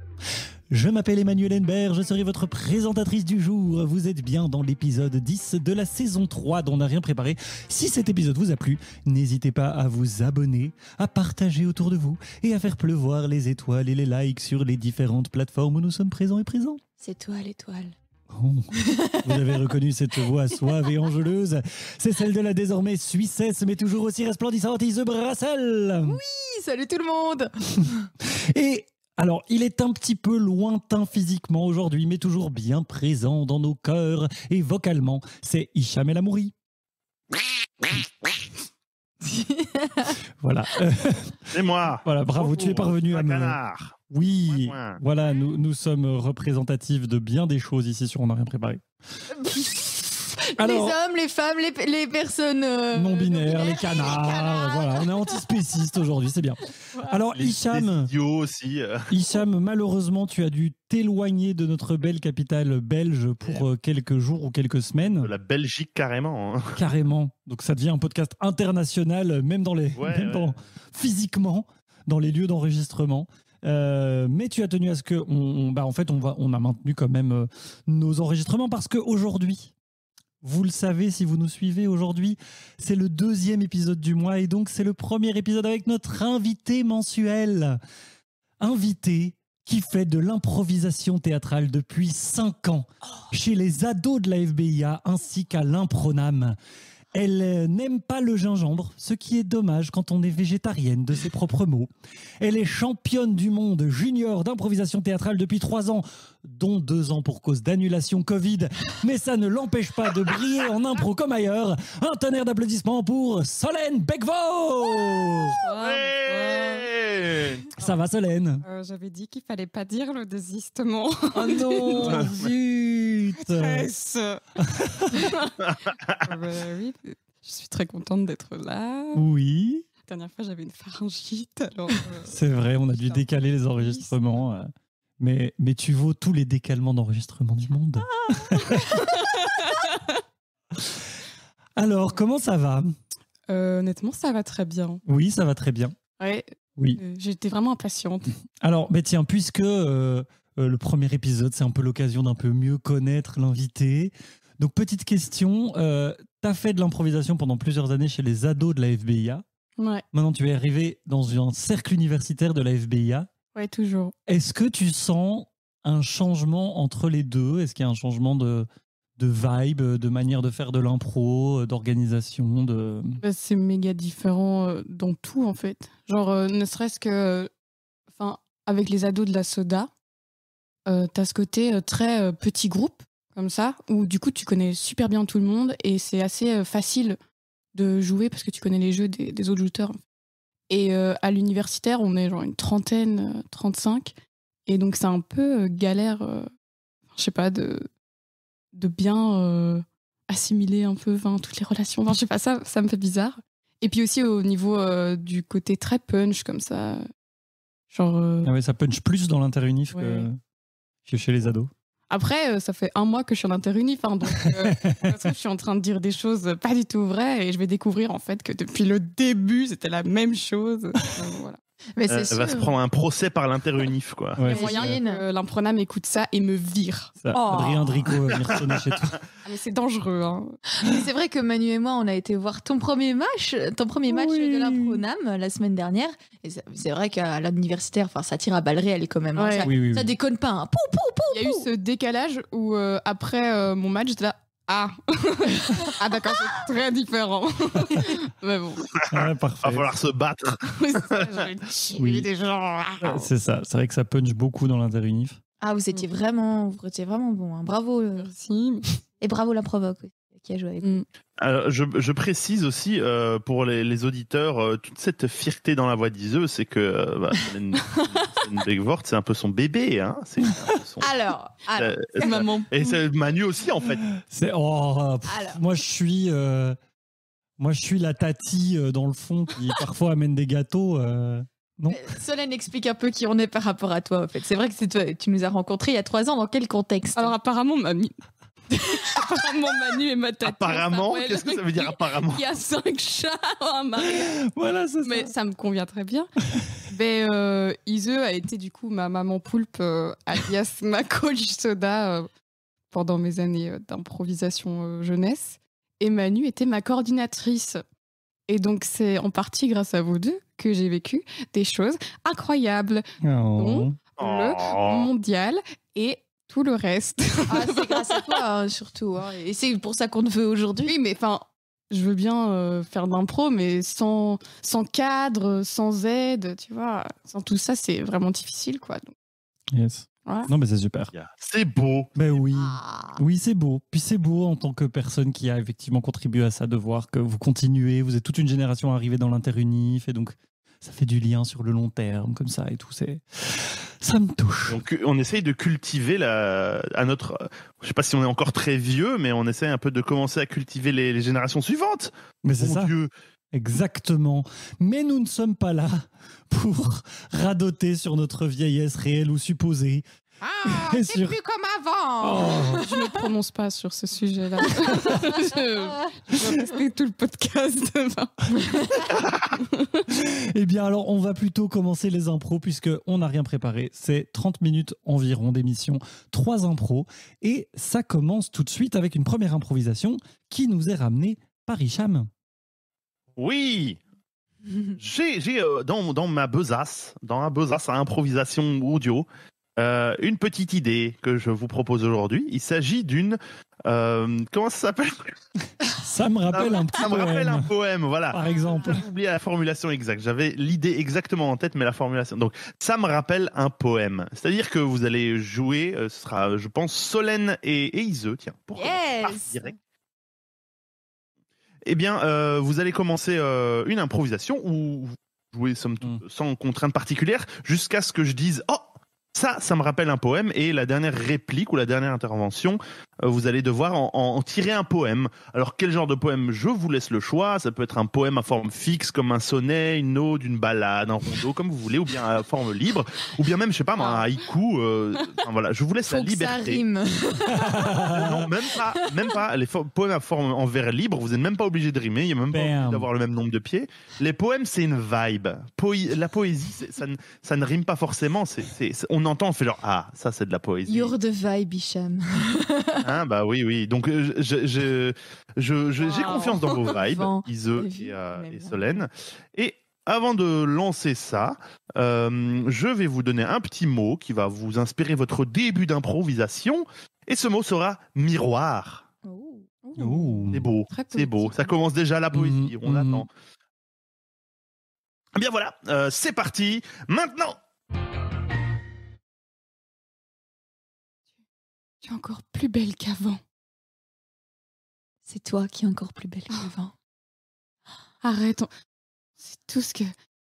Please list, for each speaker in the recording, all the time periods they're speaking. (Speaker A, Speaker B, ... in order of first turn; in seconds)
Speaker A: 0.7-16.8, 18.3-26.2, 28.2-36.5, 40.4-43.6, 44.1-48.8, 50.6-51.0, 52.9-58.1, 59.1-65.3, 66.8-79.7, 80.4-87.8, 88.6-96.6, 97.1-115.6, 117.8-118.6, 121.3-123.9, 124.6-125.3, 129.1-129.8, 132.3-139.4, 140.7-141.1, 141.8-142.9, 145.1-145.9, 148.6-159.4, 160.1-163.3, 164.3-173.2, 208.4-210.4, 211.1-211.7, 214.4-215.2, 224.3-225.0, 227.2-229.2, 234.1-235.0, 239.6-240.1, 249.1-249.9, 251.9-252.3, 253.0-255.4, 274.1-276.8, 277.6-282.1, 294.0-295.3, 313.2-313.9, 329.7-331.1, 332.1-344.8, 352.4-352.9, 353.5-360.0, 360.6-361.3, 362.2-362.8, 370.1-382.3, 395.9-397.7, 398.3-399.0, 437.5-438.4, 442.5-443.1, 469.9-470.7, 472.3-473.2
Speaker B: 17.0-17.9, 18.8-19.6, 26.0-28.0, 39.2-40.2, 49.3-55.3, 222.0-222.7, 224.4-225.2, 227.3-228.1, 230.7-241.7, 255.6-258.3, 259.2-260.9, 271.0-272.5, 275.3-275.6, 281.9-287.3, 317.5-320.9, 332.5-333.2, 360.4-363.0, 364.8-365.4, 408.8-409.7, 436.0-438.1, 450.9-453.1, 456.0-459.0, 469.2-469.7, 485.2-486.9
Speaker C: 41.5-45.0, 57.3-59.1, 65.0-66.8, 69.9-70.6, 115.8-117.6, 122.0-122.4, 125.7-126.0, 222.3-224.4, 228.4-228.8, 249.0-251.5, 261.4-271.1, 271.8-274.0, 290.4-292.4, 314.2-315.1, 331.1-332.1, 344.7-353.1, 383.4-384.0, 385.0-395.4, 396.5-409.7, 411.9-436.8, 438.0-451.1, 453.0-469.0, 470.5-473.3, 475.4-477.6
Speaker D: 115.6-116.9, 118.6-122.3, 123.4-124.4, 125.1-129.2, 130.0-132.4, 132.9-134.2, 138.2-140.2, 143.5-145.0, 146.2-146.4, 146.9-148.3, 159.8-160.0, 163.5-164.1, 173.2-177.5, 178.1-179.9, 180.8-187.2, 187.7-190.0, 190.7-194.1, 194.7-196.5, 197.1-197.9, 198.7-207.0, 207.9-208.5, 209.9-210.3, 212.1-222.2, 224.4-228.1, 229.4-230.6, 239.3-239.7, 241.3-248.9, 250.8-253.3, 258.2-259.0, 272.2-272.9, 287.1-288.1, 288.7-294.4, 295.0-296.3, 296.8-302.3, 302.9-307.8, 308.5-313.0, 313.6-318.1, 320.9-329.1, 330.2-330.5, 362.8-369.1, 369.6-370.0, 469.8-471.7, 482.0-483.4, 488.2-488.7, 489.4-490.1